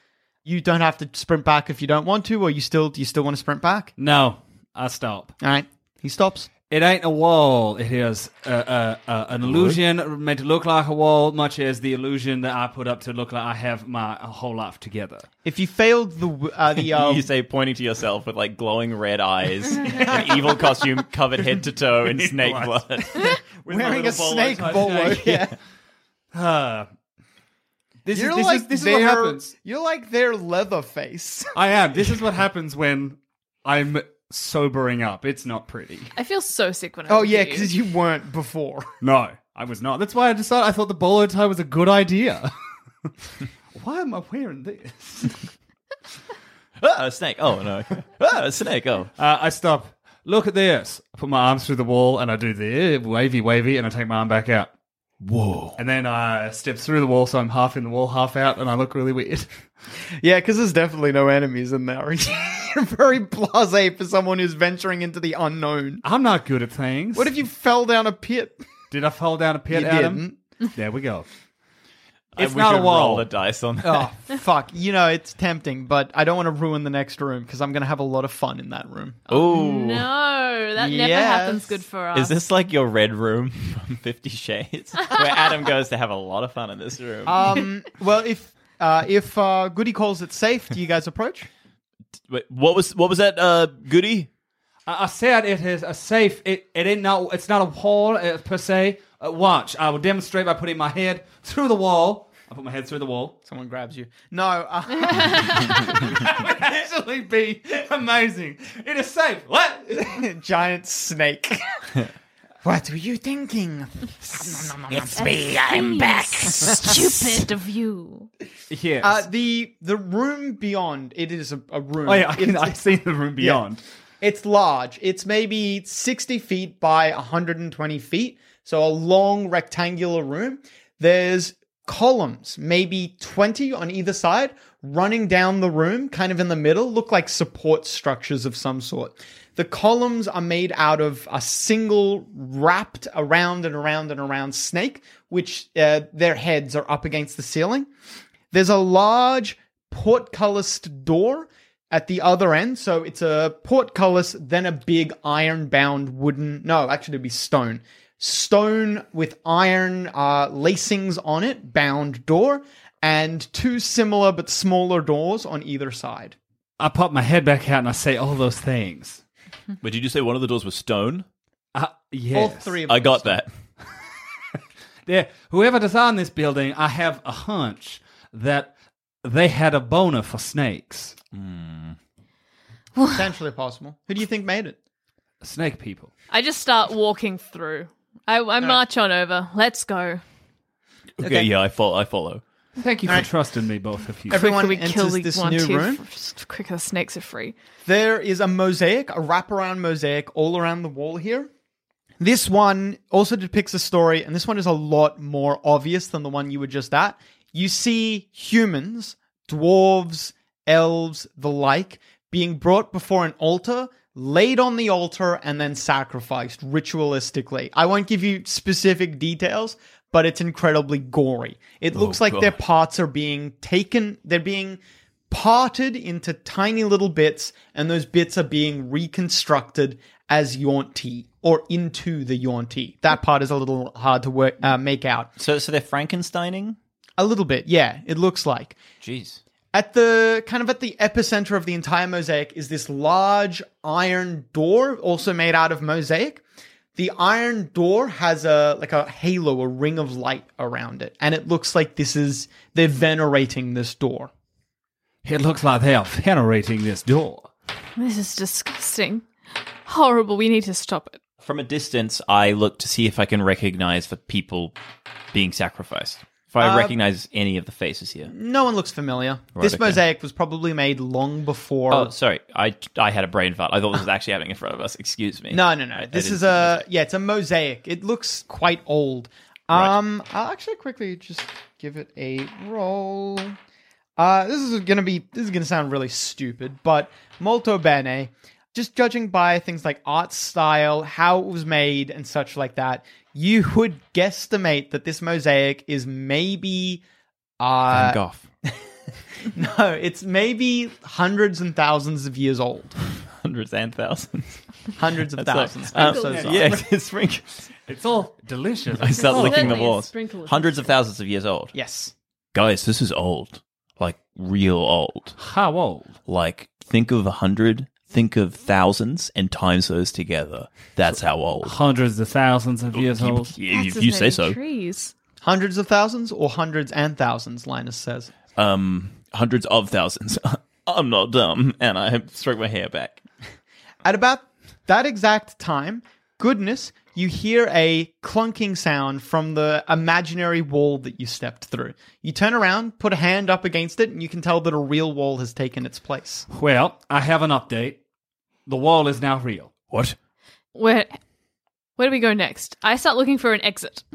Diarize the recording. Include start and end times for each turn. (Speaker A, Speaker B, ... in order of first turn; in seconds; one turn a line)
Speaker A: 0.5-3.9
Speaker B: 4.0-5.3
Speaker A: 5.4-6.5
Speaker B: 6.7-15.3
Speaker C: 9.4-9.8
Speaker A: 15.4-17.3
Speaker C: 16.9-23.3
Speaker A: 20.1-20.4
Speaker B: 22.0-25.5
Speaker A: 23.7-25.6
Speaker B: 26.3-26.9
Speaker B: 28.0-29.4
Speaker A: 28.1-31.6
Speaker B: 31.6-36.1
Speaker D: 36.1-37.7
Speaker A: 37.1-38.9
Speaker B: 39.0-42.5
Speaker B: 43.7-45.4
Speaker C: 46.8-49.1
Speaker B: 49.2-54.7
Speaker C: 55.2-55.8
Speaker B: 55.8-59.5
Speaker A: 60.2-66.0
Speaker B: 66.0-67.3
Speaker A: 67.2-68.6
Speaker B: 68.9-71.3
Speaker A: 69.7-70.4
Speaker C: 72.4-74.1
Speaker B: 72.4-73.3
Speaker A: 73.8-79.2
Speaker D: 79.3-82.3
Speaker C: 79.3-80.1
Speaker A: 80.8-81.8
Speaker C: 82.2-87.4
Speaker A: 87.2-91.5
Speaker C: 92.3-94.3
Speaker B: 94.9-103.4
Speaker A: 103.5-106.1
Speaker D: 105.2-105.6
Speaker B: 105.7-110.2
Speaker A: 110.1-111.7
Speaker A: 112.6-117.4
Speaker D: 115.2-118.3
Speaker B: 118.7-119.2
Speaker A: 119.0-122.8
Speaker B: 122.1-123.8
Speaker A: 123.4-123.6
Speaker A: 124.2-147.9
Speaker A: 148.5-166.4
Speaker B: 166.8-169.2
Speaker C: 169.8-171.2
Speaker B: 171.7-172.8
Speaker A: 172.3-173.4
Speaker C: 172.9-173.5
Speaker B: 175.1-181.2
Speaker C: 181.3-182.0
Speaker A: 183.1-184.8
Speaker B: 185.4-186.1
Speaker D: 186.3-190.2
Speaker C: 191.2-192.4
Speaker A: 191.2-191.5
Speaker B: 192.8-194.4
Speaker A: 194.3-196.0
Speaker D: 194.3-197.6
Speaker A: 197.8-201.5
Speaker A: 202.2-235.3
Speaker C: 221.9-222.6
Speaker C: 235.4-236.8
Speaker A: 237.2-238.8
Speaker C: 239.0-239.4
Speaker A: 239.7-246.4
Speaker A: 247.0-254.3
Speaker B: 255.2-257.5
Speaker D: 258.0-259.3
Speaker D: 259.9-261.2
Speaker C: 261.4-264.7
Speaker C: 265.3-268.3
Speaker A: 266.6-267.0
Speaker A: 268.3-272.1
Speaker C: 269.6-270.0
Speaker C: 271.9-276.8
Speaker A: 275.5-283.6
Speaker A: 284.2-297.0
Speaker A: 297.6-298.8
Speaker C: 297.9-298.5
Speaker A: 299.5-302.9
Speaker C: 303.4-304.6
Speaker A: 305.0-306.8
Speaker C: 305.4-307.6
Speaker B: 306.1-306.9
Speaker B: 307.9-309.8
Speaker C: 308.9-311.8
Speaker D: 309.1-310.9
Speaker A: 311.7-312.1
Speaker C: 312.5-315.4
Speaker B: 315.4-316.1
Speaker C: 316.3-321.8
Speaker B: 321.6-323.5
Speaker C: 323.0-324.6
Speaker D: 323.7-325.1
Speaker A: 325.4-328.3
Speaker C: 328.6-333.2
Speaker A: 334.0-346.5
Speaker B: 346.5-348.0
Speaker B: 348.7-349.7
Speaker C: 349.9-350.2
Speaker D: 350.8-351.2
Speaker D: 352.0-354.0